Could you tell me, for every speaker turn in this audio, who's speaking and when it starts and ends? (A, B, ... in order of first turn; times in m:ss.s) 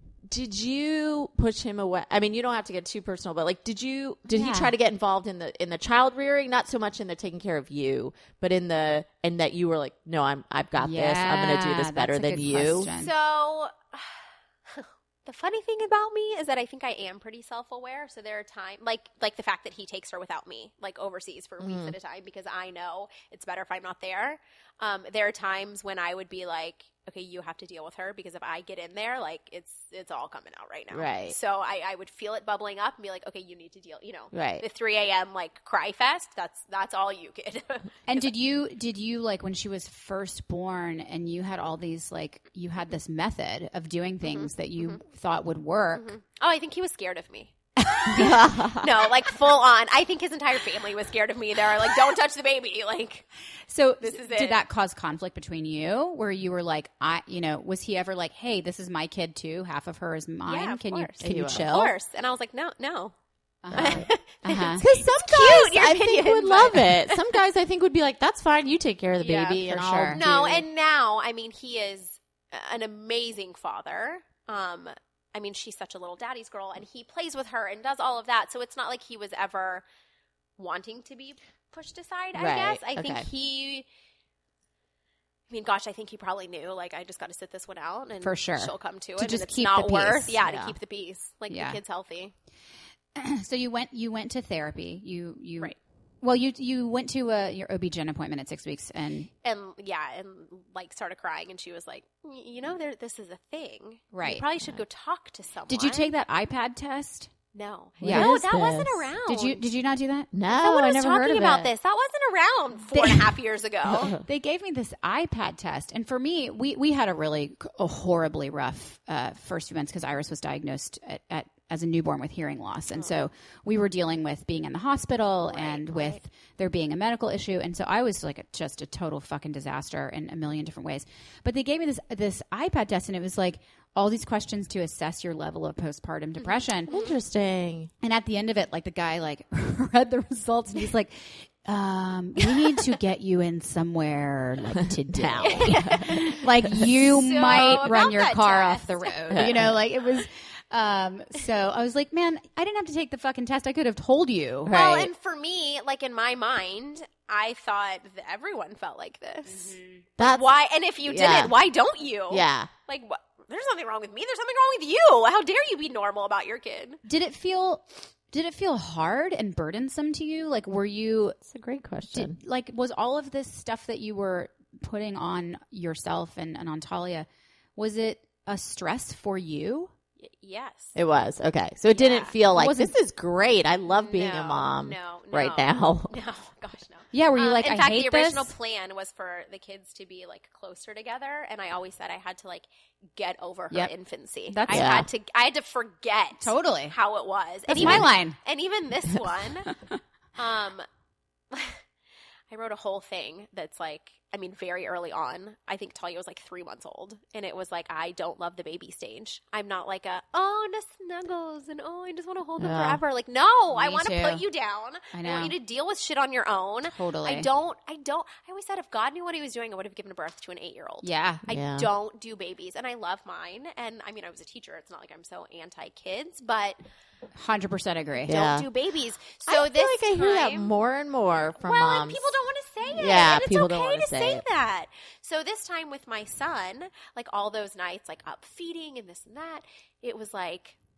0:00.3-0:12.9 A
0:04.3-0:04.7 B
0:10.8-0:13.1 B
0:12.9-0:38.3 C
0:21.6-0:22.0 A
0:30.9-0:31.4 A
0:34.3-0:34.6 A
0:38.1-0:46.1 B
0:44.2-0:45.0 C
0:46.0-0:53.3 C
0:47.9-0:48.4 B
0:48.1-0:48.9 A
0:53.7-1:01.9 B
0:54.0-0:54.6 C
1:00.5-1:03.2 C
1:01.2-1:01.7 A
1:03.6-1:04.8 B
1:03.7-1:04.0 A
1:03.7-1:07.2 C
1:04.8-1:10.6 A
1:09.2-1:09.6 C
1:09.6-1:10.2 B
1:10.1-1:19.8 C
1:20.6-1:23.9 C
1:22.4-1:23.3 A
1:25.5-1:32.3 C
1:28.2-1:30.4 B
1:30.4-1:30.8 A
1:31.5-1:31.8 B
1:33.2-1:39.3 B
1:39.4-1:46.1 C
1:44.1-1:44.5 B
1:45.7-1:47.3 B
1:47.5-1:49.6 C
1:48.0-1:48.4 B
1:48.0-1:49.1 A
1:49.3-1:50.3 B
1:50.3-1:51.7 A
1:50.5-1:54.2 C
1:52.9-1:53.3 B
1:54.2-2:16.9 B
2:05.5-2:06.2 C
2:16.9-2:17.1 C
2:16.9-2:17.9 A
2:18.0-2:34.8 B
2:25.1-2:26.3 A
2:25.4-2:29.4 C
2:29.3-2:29.7 A
2:34.7-2:35.1 A
2:34.7-2:47.0 C
2:39.5-2:40.1 B
2:40.2-2:40.5 A
2:41.0-2:41.6 A
2:42.3-2:42.7 A
2:47.0-2:51.4 B
2:51.5-2:52.4 A
2:52.1-2:59.9 B
3:00.2-3:01.0 C
3:01.0-3:06.2 A
3:01.9-3:02.4 C
3:02.5-3:02.9 B
3:03.9-3:19.7 C
3:07.1-3:08.5 B
3:14.5-3:14.9 B
3:14.7-3:15.1 A
3:16.4-3:17.0 B
3:17.7-3:18.4 B
3:17.8-3:18.0 A
3:20.4-3:20.8 C
3:21.5-3:21.8 C
3:22.5-3:46.8 C
3:32.6-3:33.0 A
3:33.7-3:34.4 B
3:35.1-3:35.6 B
3:36.9-3:37.5 B
3:41.0-3:41.4 B
3:41.5-3:41.9 A
3:47.4-3:48.4 B
3:48.3-3:48.7 A
3:48.3-3:50.7 C
3:49.5-3:52.3 A
3:51.6-4:00.8 C
3:52.9-3:54.4 A